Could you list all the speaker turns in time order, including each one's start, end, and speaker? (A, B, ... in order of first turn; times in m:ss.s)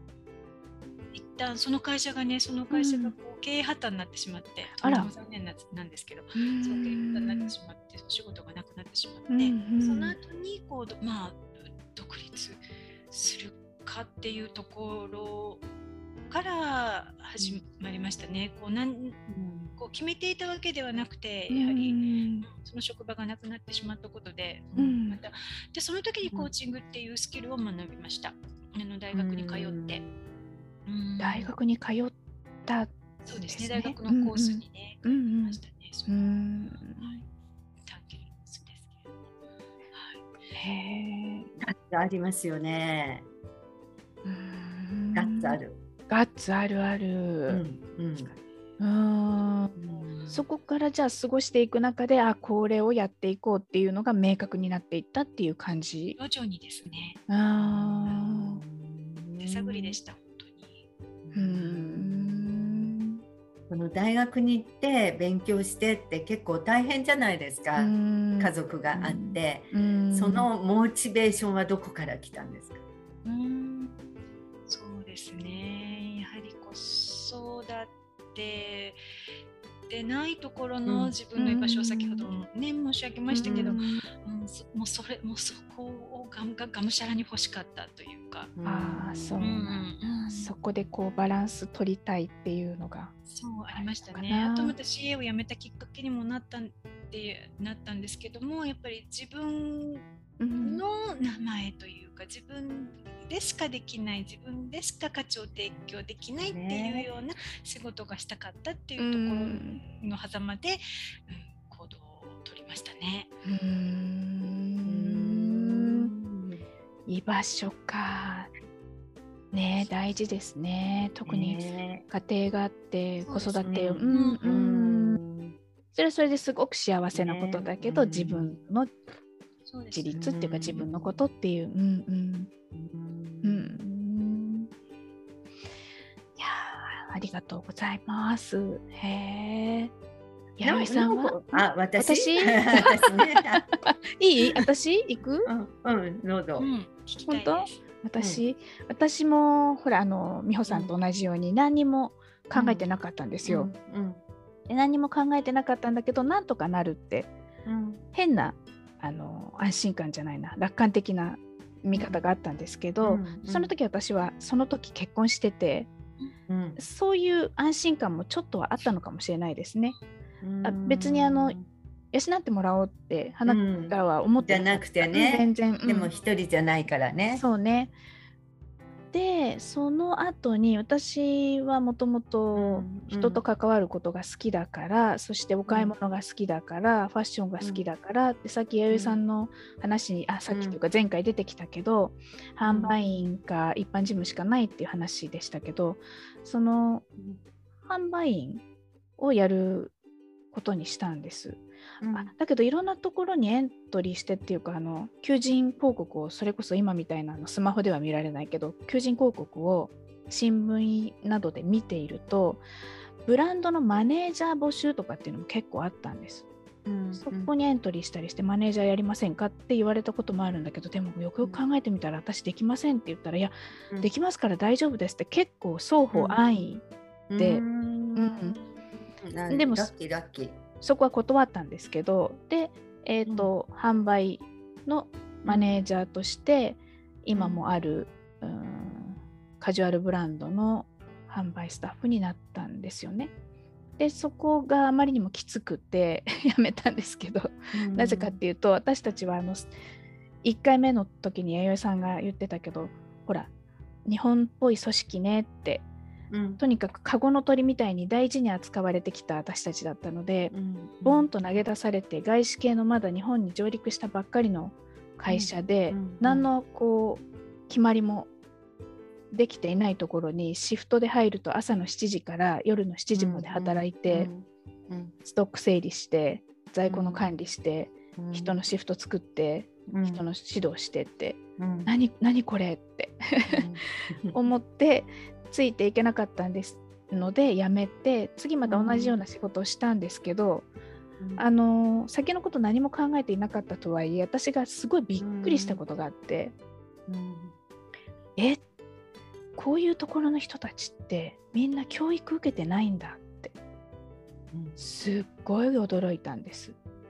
0:01.1-0:15.6 A
0:02.7-0:03.1 B
0:04.8-0:05.1 B
0:06.4-0:07.5 B
0:09.3-0:10.2 B
0:16.3-0:19.2 A
0:19.3-0:19.7 C
0:19.8-0:30.0 A
0:21.5-0:22.5 B
0:24.8-0:25.2 B
0:26.3-0:26.5 C
0:29.1-0:30.2 C
0:30.9-0:31.5 A
0:31.2-0:32.2 B
0:32.7-0:32.9 B
0:33.2-0:37.2 A
0:33.5-0:37.2 B
0:37.8-0:39.0 A
0:39.9-0:40.2 A
0:40.6-0:41.5 B
0:41.6-0:43.3 C
0:44.2-0:47.6 B
0:45.1-0:45.8 C
0:47.5-0:48.3 C
0:48.8-0:49.8 B
0:49.8-0:50.4 C
0:50.3-0:56.2 B
0:56.2-0:57.2 A
0:57.3-0:58.6 B
0:57.6-0:59.9 C
0:59.4-1:00.8 A
1:01.2-1:03.0 C
1:01.3-1:03.2 B
1:03.7-1:12.8 C
1:07.8-1:10.5 B
1:13.2-1:14.0 A
1:14.7-1:19.0 A
1:19.9-1:28.5 A
1:20.9-1:21.1 C
1:21.4-1:22.3 B
1:23.3-1:24.0 B
1:23.4-1:23.8 C
1:28.6-1:29.5 C
1:28.6-1:33.1 B
1:29.4-1:30.6 A
1:33.3-1:40.0 A
1:33.7-1:34.8 B
1:40.4-1:40.8 B
1:40.6-1:53.3 A
1:46.4-1:47.1 C
1:49.0-1:49.8 B
1:53.4-1:56.1 B
1:54.9-1:56.6 C
1:57.1-1:58.5 B
1:59.5-2:05.2 B
2:01.3-2:02.1 C
2:03.2-2:04.4 A
2:03.6-2:05.6 C
2:05.9-2:08.9 B
2:07.1-2:08.6 C
2:09.7-2:10.2 A
2:09.9-2:12.5 B
2:10.1-2:11.2 C
2:12.7-2:13.8 C
2:13.4-2:14.7 B
2:16.4-2:19.9 B
2:20.6-2:25.5 B
2:20.6-2:23.7 C
2:25.4-2:26.7 C
2:26.6-2:27.8 A
2:27.3-2:33.7 B
2:30.7-2:30.9 C
2:32.5-2:32.9 C
2:33.4-2:34.2 C
2:34.7-2:37.3 B
2:37.6-2:38.0 C
2:38.1-2:45.9 B
2:41.9-2:42.2 C
2:43.0-2:43.7 C
2:46.5-2:46.8 C
2:46.8-2:50.0 B
2:50.4-2:51.7 C
2:50.6-2:51.6 B
2:52.1-2:56.1 B
2:53.5-2:57.4 C
2:55.8-2:56.2 A
2:57.3-2:58.0 B
2:59.1-3:17.0 B
3:02.6-3:03.4 C
3:05.7-3:05.9 C
3:07.6-3:07.8 C
3:08.9-3:09.2 C
3:10.5-3:10.8 C
3:12.7-3:13.0 C
3:17.9-3:18.6 B
3:19.2-3:19.9 B
3:20.5-3:32.6 B
3:22.0-3:22.3 C
3:33.2-3:36.5 B
3:36.8-3:37.5 C
3:37.2-3:46.8 B
3:46.1-3:46.4 C
3:47.3-3:48.7 C
3:47.4-3:47.6 B
3:48.2-3:48.6 B
3:49.2-3:50.6 C
3:49.5-3:49.9 B
3:50.8-4:03.3 B
3:55.5-3:55.8 C
3:57.3-3:57.6 C
4:04.0-4:09.7 B
4:07.7-4:08.4 C
4:10.4-4:13.5 B
4:14.0-4:15.9 B
4:16.3-4:16.6 C
4:16.6-4:20.5 B
4:20.5-4:21.3 C
4:21.0-4:28.3 B
4:25.3-4:26.5 C
4:29.3-4:34.3 B
4:33.1-4:35.1 C
4:35.2-4:43.6 B
4:36.8-4:37.3 C
4:38.2-4:38.6 C
4:39.9-4:40.2 C
4:41.6-4:41.9 C
4:43.5-4:44.4 C
4:44.3-4:50.7 B
4:48.6-4:49.2 C
4:51.2-4:51.4 C
4:51.4-4:56.5 B
4:55.2-4:55.8 C
4:57.1-4:57.5 C
4:58.4-4:58.6 B
4:59.6-5:03.5 B
5:04.5-5:04.8 C
5:04.8-5:06.8 B